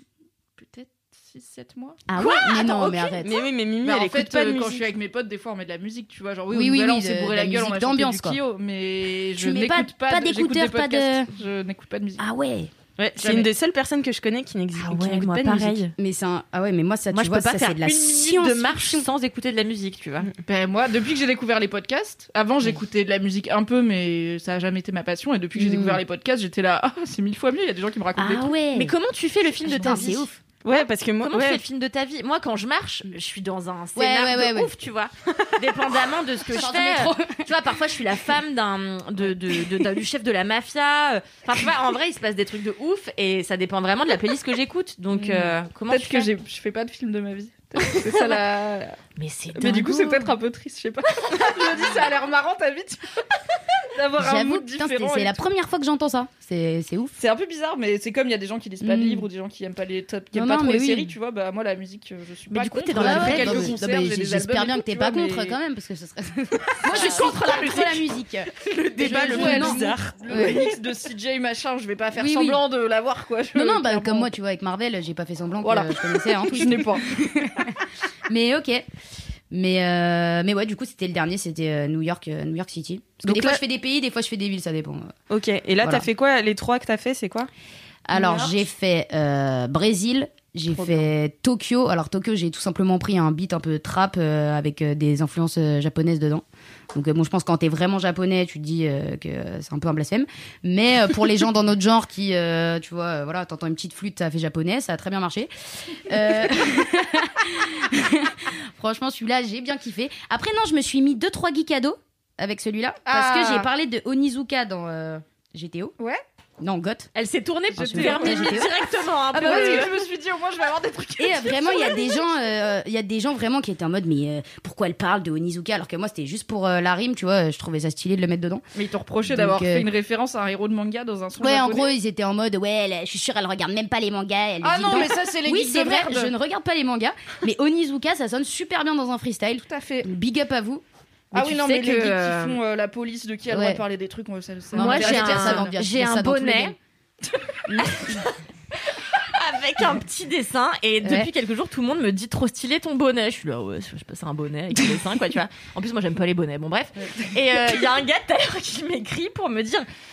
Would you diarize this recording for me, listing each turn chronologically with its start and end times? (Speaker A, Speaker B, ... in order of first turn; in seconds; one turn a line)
Speaker A: 0.6-2.0
Speaker B: 2.1-3.5
Speaker C: 2.2-3.1
Speaker A: 2.6-2.9
Speaker D: 3.2-4.9
Speaker A: 3.8-12.2
Speaker B: 6.5-8.4
Speaker B: 9.4-11.3
Speaker B: 12.2-12.7
Speaker D: 13.0-15.9
Speaker C: 14.8-15.9
Speaker B: 16.0-19.1
Speaker C: 17.1-20.3
Speaker A: 20.4-28.5
Speaker B: 25.6-26.0
Speaker B: 28.2-28.9
Speaker C: 28.7-30.3
Speaker B: 29.7-30.4
Speaker D: 30.6-31.6
Speaker C: 31.2-46.3
Speaker B: 34.0-34.7
Speaker B: 36.5-37.5
Speaker B: 45.1-45.5
Speaker A: 45.9-49.0
Speaker C: 49.2-50.3
Speaker A: 49.5-53.0
Speaker A: 53.9-55.4
Speaker B: 54.2-57.1
Speaker A: 57.2-65.6
Speaker B: 58.8-59.3
Speaker B: 60.3-61.1
Speaker C: 62.5-63.8
Speaker B: 62.9-70.6
Speaker A: 66.8-67.6
Speaker D: 68.6-70.6
Speaker A: 69.0-74.3
Speaker B: 72.1-72.6
Speaker B: 73.5-77.7
Speaker A: 75.6-77.1
Speaker B: 78.3-78.8
Speaker B: 79.5-85.1
Speaker D: 83.2-83.6
Speaker D: 85.3-87.5
Speaker B: 88.1-105.5
Speaker B: 106.0-115.9
Speaker A: 113.1-113.7
Speaker B: 116.6-117.1
Speaker C: 117.2-120.0
Speaker A: 117.8-118.6
Speaker B: 117.8-118.7
Speaker A: 119.3-122.3
Speaker B: 121.2-128.6
Speaker A: 128.7-131.9
Speaker B: 129.3-129.9
Speaker B: 131.4-140.8
Speaker A: 134.6-136.3
Speaker A: 139.7-140.1
Speaker A: 141.3-145.7
Speaker C: 141.3-142.6
Speaker B: 143.5-143.8
Speaker B: 144.7-146.8
Speaker C: 144.7-146.8
Speaker B: 147.7-148.2
Speaker C: 147.8-148.3
Speaker C: 148.9-159.8
Speaker B: 151.0-151.3